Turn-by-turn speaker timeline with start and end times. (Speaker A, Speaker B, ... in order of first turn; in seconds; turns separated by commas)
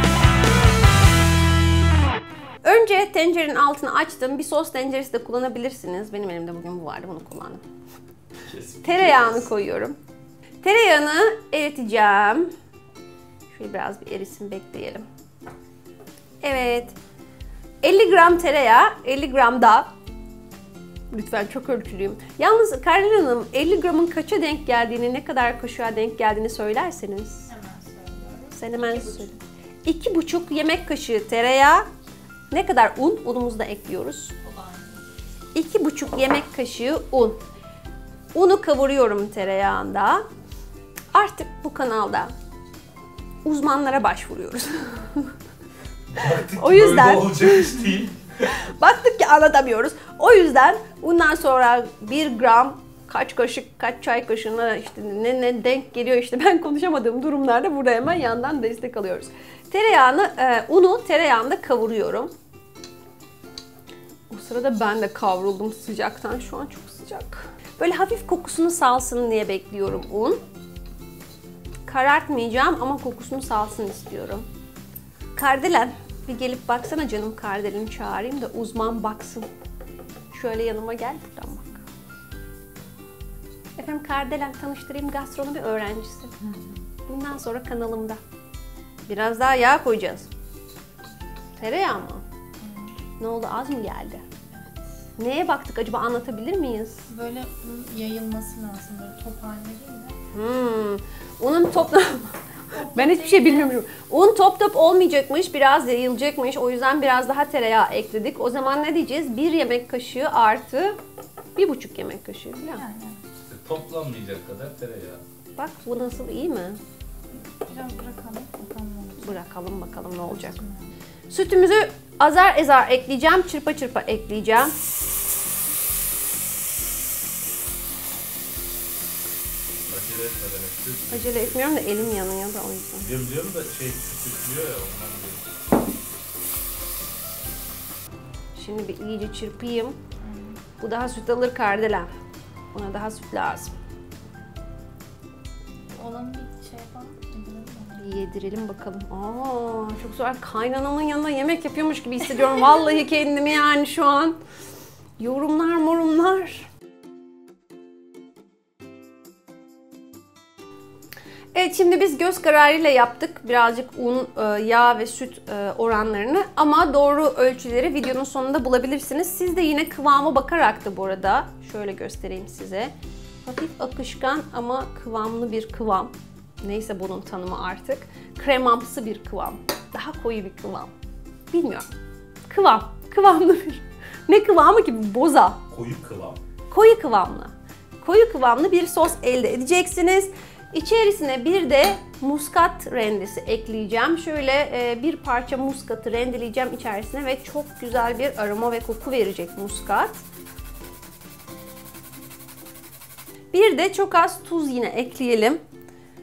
Speaker A: 2.6-7.6, Speaker B: 8.4-9.5, Speaker A: 8.8-10.0, Speaker A: 10.6-12.5, Speaker A: 13.5-15.0, Speaker A: 16.4-17.0, Speaker A: 17.8-19.9, Speaker A: 21.1-27.5, Speaker C: 27.5-29.4, Speaker A: 28.5-29.3, Speaker A: 29.8-31.9, Speaker A: 32.5-34.4, Speaker C: 34.4-35.1, Speaker A: 35.5-37.4, Speaker A: 38.3-40.2, Speaker A: 41.1-42.3, Speaker A: 43.4-45.3, Speaker B: 46.1-48.2, Speaker A: 46.2-62.3, Speaker A: 64.3-70.4, Speaker A: 71.9-74.5, Speaker A: 75.3-79.5, Speaker A: 80.3-81.8, Speaker A: 83.8-86.3, Speaker A: 87.1-88.2, Speaker A: 89.1-90.3, Speaker A: 91.6-92.2, Speaker C: 92.6-92.9, Speaker A: 93.2-94.2, Speaker A: 95.2-97.0, Speaker C: 97.1-100.2, Speaker A: 100.3-102.4, Speaker C: 102.7-103.8, Speaker A: 102.9-111.0, Speaker A: 111.5-112.8, Speaker C: 112.7-113.2, Speaker B: 113.4-115.2, Speaker A: 115.6-116.8, Speaker C: 117.7-120.9, Speaker A: 119.2-120.6, Speaker A: 121.3-124.7, Speaker B: 129.9-132.2, Speaker A: 131.1-133.1, Speaker B: 133.0-135.5, Speaker A: 138.5-140.0, Speaker C: 140.2-140.6, Speaker A: 140.8-142.1, Speaker A: 142.7-143.7, Speaker C: 145.9-148.2, Speaker A: 148.0-154.4, Speaker A: 155.2-156.7, Speaker A: 161.5-172.9, Speaker A: 173.4-180.9, Speaker A: 181.5-181.9, Speaker A: 182.5-185.6, Speaker B: 185.7-186.4, Speaker A: 186.7-200.2, Speaker A: 203.5-205.6